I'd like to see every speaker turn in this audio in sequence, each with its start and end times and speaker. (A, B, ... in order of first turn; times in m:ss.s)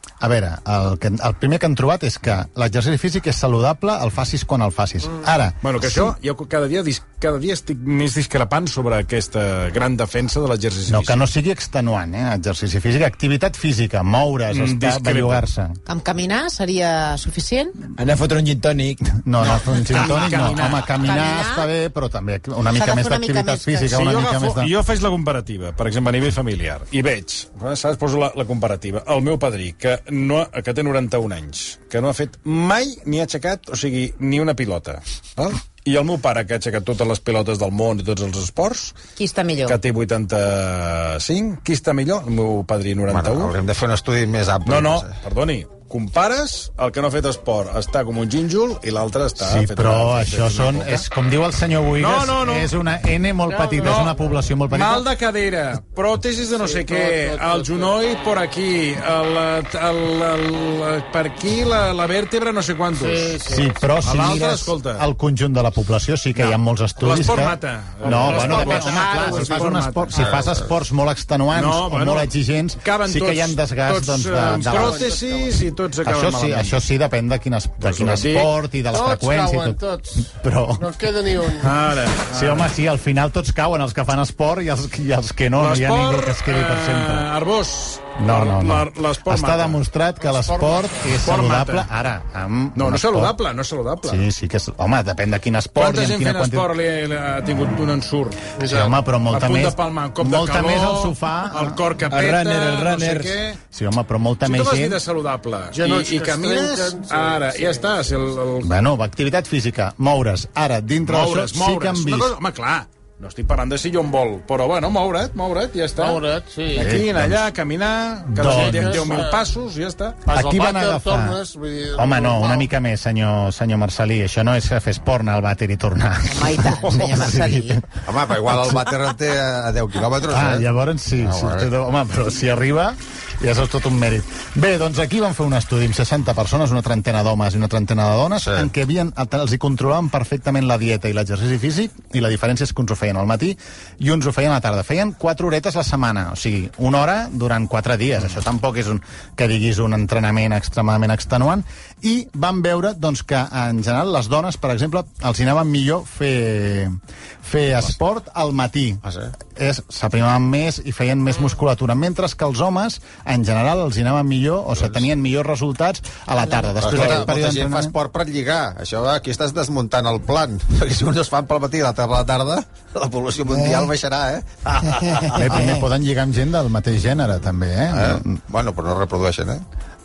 0:00.2-0:06.1 A
0:05.6-0:11.2 B
0:10.9-0:15.8 A
0:14.5-0:15.4 B
0:15.8-0:17.8 C
0:18.0-0:19.0 D
0:19.1-0:24.7 A
0:19.4-0:20.3 E
0:19.9-0:21.0 B
0:21.0-0:21.7 C
0:22.7-0:24.1 C
0:23.8-0:38.9 B
0:39.2-0:39.8 C
0:39.6-0:43.5 B
0:43.1-0:45.1 E
0:44.6-0:51.0 B
0:49.4-0:55.1 A
0:52.0-0:52.7 B
0:53.5-0:54.2 F
0:53.8-0:54.2 B
0:54.7-1:03.5 B
0:56.6-0:57.9 F
1:03.0-1:03.9 F
1:03.4-1:15.1 A
1:04.0-1:05.0 B
1:06.3-1:10.2 B
1:08.0-1:09.6 F
1:10.1-1:10.7 E
1:11.5-1:16.8 B
1:14.5-1:15.7 F
1:16.0-1:20.9 A
1:17.8-1:18.6 B
1:18.9-1:20.2 F
1:20.8-1:21.7 F
1:21.5-1:22.7 B
1:22.3-1:27.3 A
1:25.6-1:29.8 B
1:28.2-1:33.3 A
1:30.2-1:31.1 F
1:31.2-1:31.9 B
1:32.7-1:34.3 B
1:34.0-1:36.7 A
1:35.8-1:38.5 B
1:38.6-1:38.9 F
1:38.6-1:41.8 A
1:39.3-1:43.6 B
1:42.1-1:43.4 D
1:43.7-1:45.0 A
1:44.4-1:48.7 B
1:45.7-1:48.0 F
1:48.6-1:52.3 A
1:51.0-2:00.2 B
1:56.0-1:57.0 F
1:56.8-1:57.5 A
1:58.3-1:59.2 A
1:58.4-1:59.4 F
2:00.3-2:02.7 F
2:00.3-2:01.4 A
2:01.9-2:07.8 A
2:06.3-2:07.8 C
2:08.0-2:11.7 E
2:10.3-2:47.9 A
2:18.4-2:18.7 E
2:39.0-2:39.3 E
2:46.8-2:55.4 E
2:53.5-2:53.9 D
2:55.1-2:55.8 D
2:55.3-2:58.4 A
2:57.9-2:59.6 E